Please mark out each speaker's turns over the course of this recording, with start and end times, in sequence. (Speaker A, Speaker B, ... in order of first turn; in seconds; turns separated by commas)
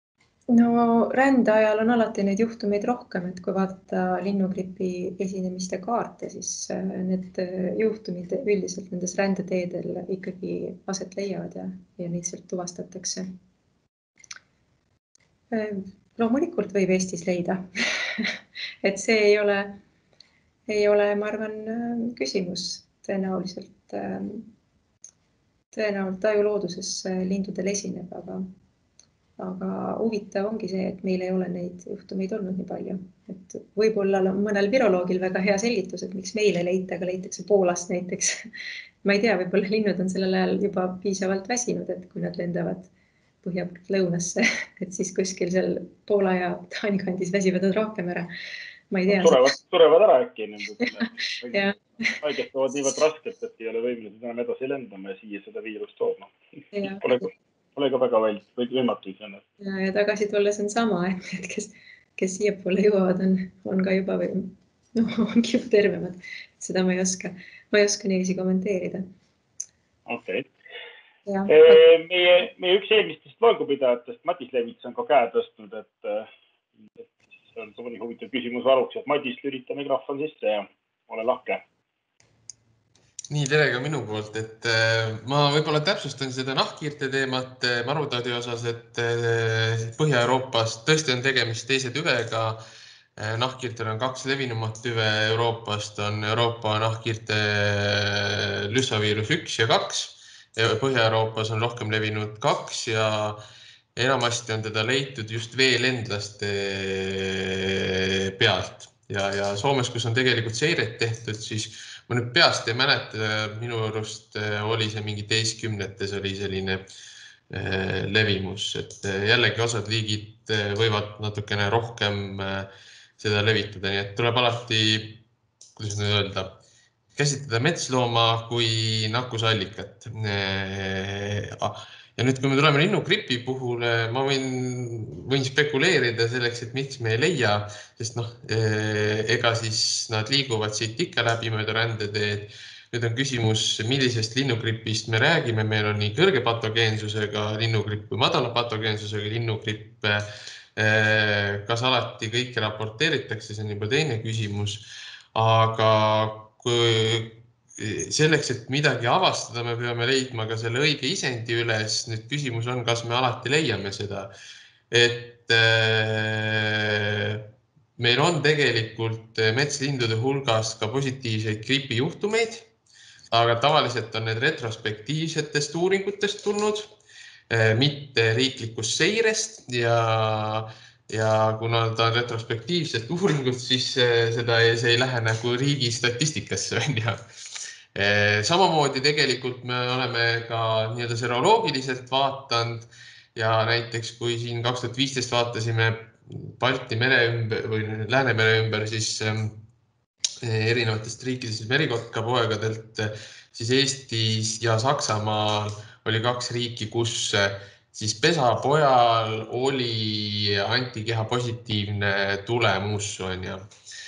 Speaker A: 0.5-13.3, Speaker A: 15.5-19.8, Speaker A: 20.7-24.5, Speaker A: 25.7-28.4, Speaker A: 29.4-38.5, Speaker A: 39.0-42.9, Speaker A: 43.4-48.3, Speaker A: 48.9-49.5, Speaker B: 49.1-51.7, Speaker A: 51.0-52.1, Speaker B: 52.2-56.3, Speaker A: 56.7-57.3, Speaker B: 57.0-59.4, Speaker A: 59.6-69.0, Speaker B: 70.1-70.5, Speaker A: 71.2-71.8, Speaker B: 71.5-76.3, Speaker B: 77.0-81.6, Speaker C: 83.3-92.6, Speaker C: 93.2-103.4, Speaker C: 104.0-116.8, Speaker C: 117.5-125.2, Speaker C: 125.8-126.6, Speaker C: 127.2-164.3, Speaker C: 164.9-172.7, Speaker C: 173.3-176.9, Speaker C: 177.5-199.6, Speaker C: 200.4-213.6